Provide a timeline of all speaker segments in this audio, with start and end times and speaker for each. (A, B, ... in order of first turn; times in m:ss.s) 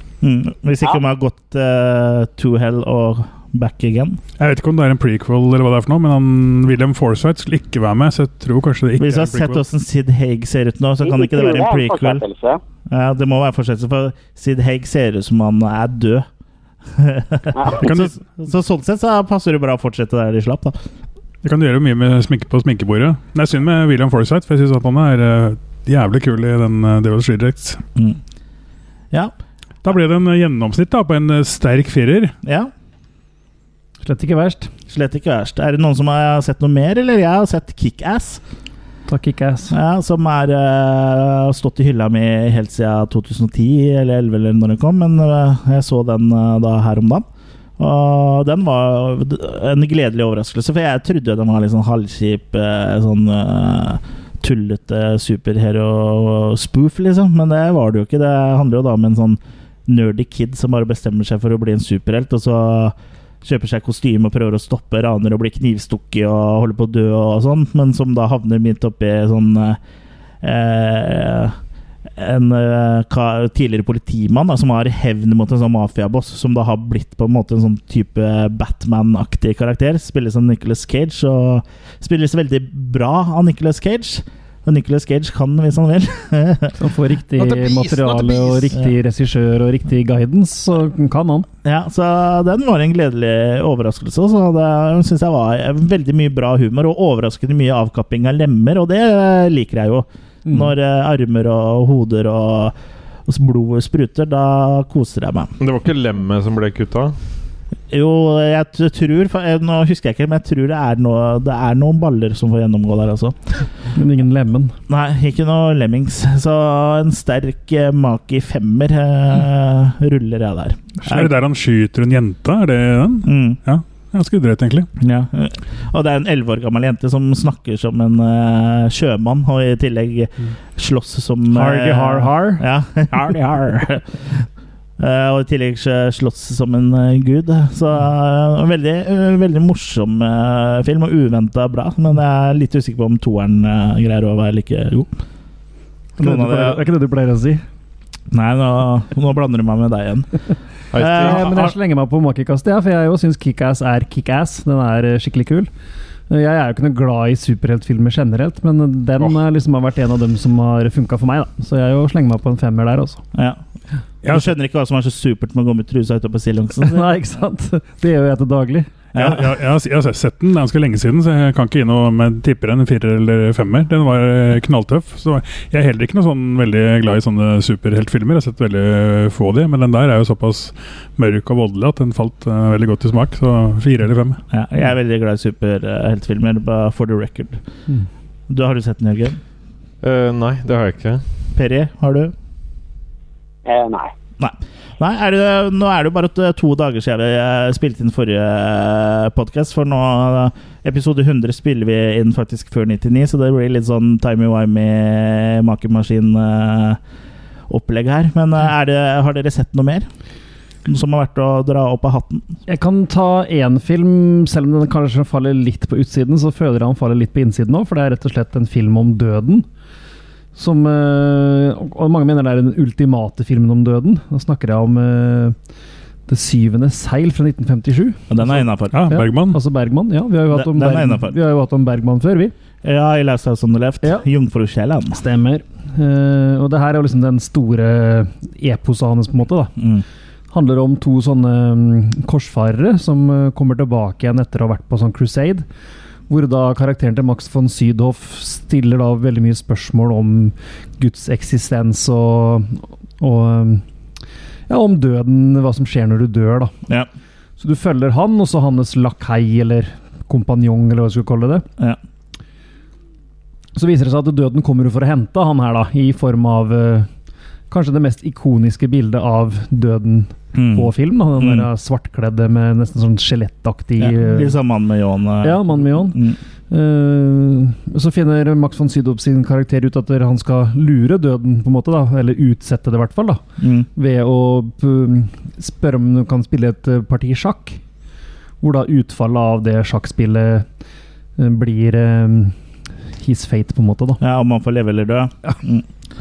0:00.2-0:04.2 A
0:04.4-0:09.6 B
0:09.0-0:12.2 A
0:11.0-0:12.6 C
0:12.9-0:16.3 A
0:16.9-0:20.8 A
0:17.7-0:18.2 B
0:21.4-0:27.8 B
0:29.8-0:32.3 B
0:32.4-0:32.7 A
0:34.0-0:34.7 D
0:34.9-0:38.4 A
0:39.1-0:39.8 D
0:39.7-0:47.2 A
0:47.8-1:09.8 A
1:10.4-1:11.6 A
1:12.2-1:26.8 A
1:26.8-1:31.5 D
1:27.4-1:28.6 E
1:31.6-1:42.8 A
1:40.5-1:40.7 D
1:43.3-1:45.6 A
1:45.6-1:47.1 E
1:47.9-1:53.4 A
1:53.9-1:54.8 D
1:54.9-2:01.3 A
2:01.0-2:04.9 B
2:03.2-2:03.6 A
2:05.0-2:14.4 A
2:11.5-2:12.6 D
2:15.0-2:25.1 A
2:26.2-2:26.8 A
2:26.2-2:27.6 D
2:28.3-2:30.3 A
2:30.9-2:31.5 E
2:30.9-2:31.7 A
2:31.2-2:35.7 D
2:36.3-2:43.2 D
2:43.3-2:43.6 A
2:44.3-2:47.1 A
2:46.8-2:48.9 D
2:49.2-2:49.5 A
2:49.2-3:04.4 B
3:04.5-3:07.6 A
3:08.5-3:09.4 A
3:10.0-3:11.2 E
3:11.6-3:12.3 A
3:13.6-3:14.1 C
3:14.4-3:27.0 A
3:27.7-3:30.1 A
3:30.9-3:32.5 A
3:32.7-3:39.7 D
3:40.6-3:45.6 D
3:46.3-3:48.5 D
3:48.3-3:49.0 A
3:48.9-3:49.6 B
3:49.1-3:52.5 D
3:50.5-3:51.4 A
3:52.8-3:55.2 A
3:55.1-3:59.7 D
3:59.8-4:00.0 A
4:00.5-4:05.6 D
4:06.3-4:13.8 D
4:14.7-4:16.8 D
4:17.6-4:21.7 D
4:23.8-4:27.1 D
4:27.7-4:34.6 D
4:30.5-4:31.7 A
4:34.0-4:36.4 A
4:35.4-4:43.4 D
4:43.6-4:43.9 A
4:44.0-4:47.8 D
4:48.6-4:50.7 D
4:51.4-4:52.6 D
4:53.2-4:54.2 D
4:54.2-4:55.9 A